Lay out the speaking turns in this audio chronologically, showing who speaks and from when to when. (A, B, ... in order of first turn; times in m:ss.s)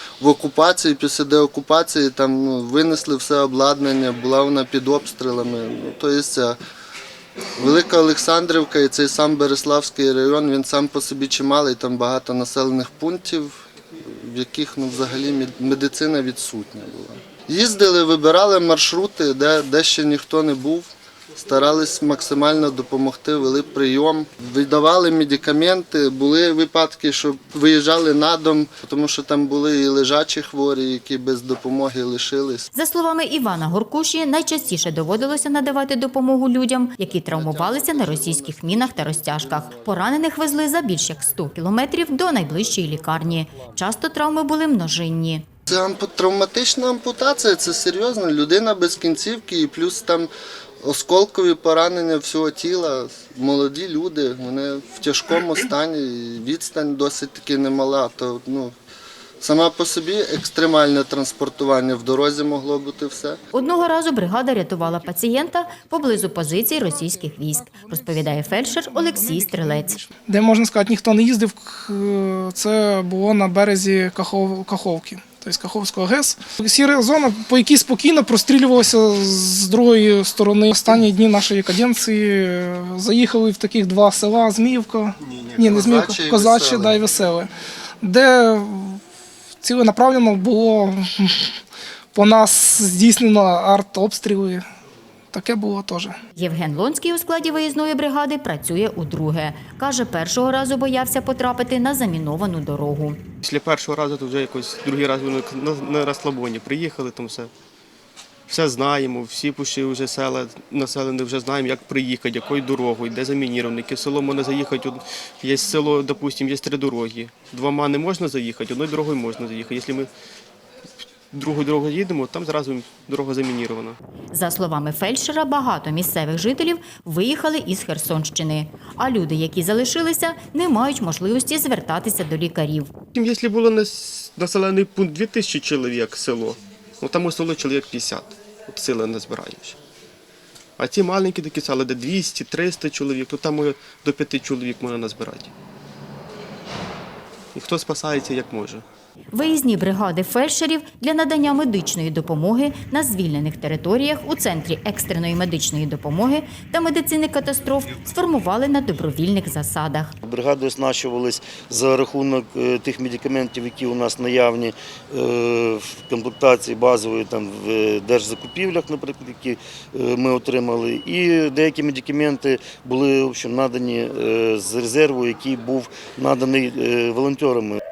0:00.2-0:06.6 A
0:07.6-0:20.9 A
0:21.4-0:32.7 A
0:32.7-0:45.4 B
0:37.1-0:40.0 A
0:45.7-0:50.3 A
0:50.8-0:58.7 A
0:59.4-1:03.4 A
1:03.5-1:10.0 B
1:06.5-1:27.5 C
1:25.5-1:27.0 A
1:28.0-1:29.0 C
1:29.6-1:31.6 C
1:32.1-1:34.6 C
1:35.3-1:36.2 C
1:36.4-1:43.2 B
1:43.4-1:47.5 D
1:48.5-2:00.1 D
2:01.3-2:04.0 D
2:04.3-2:12.9 B
2:13.1-2:19.8 D
2:20.8-2:25.5 D
2:27.5-2:28.8 D
2:29.3-2:40.2 B
2:40.2-2:57.8 E